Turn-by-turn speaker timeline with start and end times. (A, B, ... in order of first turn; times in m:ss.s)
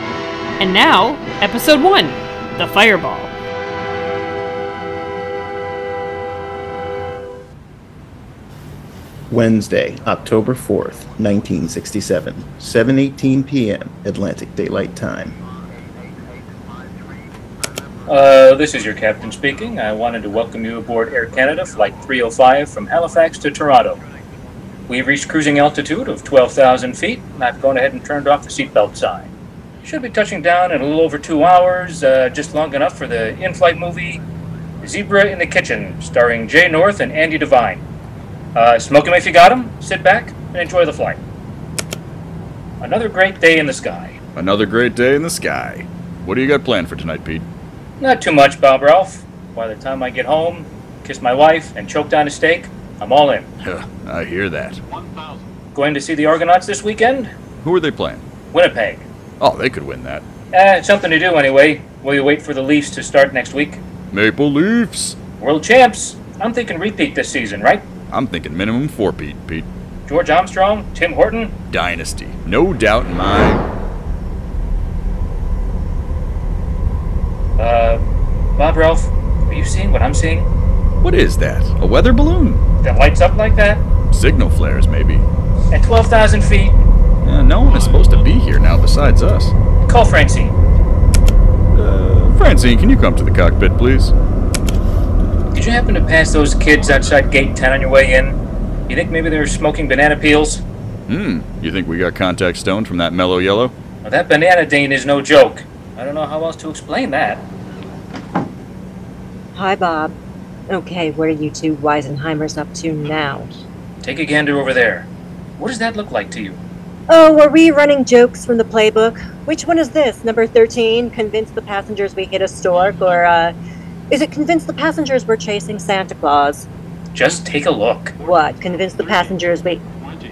0:00.6-0:03.3 A
0:09.3-0:15.4 B
0:18.1-0:24.0 C
0:24.9-0:29.3 C
0:29.8-0:34.2 C
0:34.8-0:37.8 C
0:38.6-0:41.2 C
0:42.8-0:44.2 C
0:44.4-0:47.5 D
0:48.0-0:53.5 C
0:53.6-0:54.8 D
0:55.7-0:57.3 C
0:57.6-0:58.2 D
0:58.5-0:59.1 C
0:59.4-1:00.2 D
1:00.5-1:03.8 C
1:04.1-1:05.2 D
1:05.4-1:07.9 C
1:08.1-1:09.7 D
1:10.0-1:11.6 C
1:11.7-1:13.6 D
1:17.6-1:18.0 C
1:18.6-1:20.5 C
1:21.0-1:22.6 D
1:22.8-1:23.8 C
1:24.1-1:25.3 D
1:25.7-1:26.8 C
1:27.2-1:29.5 D
1:29.8-1:30.6 C
1:31.7-1:34.1 D
1:35.5-1:40.6 C
1:41.1-1:43.7 D
1:44.0-1:47.4 C
1:49.5-1:50.1 E
1:50.7-1:53.5 E
1:54.0-1:56.6 C
1:57.1-2:03.5 E
2:04.1-2:06.7 E
2:07.1-2:08.1 C
2:08.2-2:09.8 E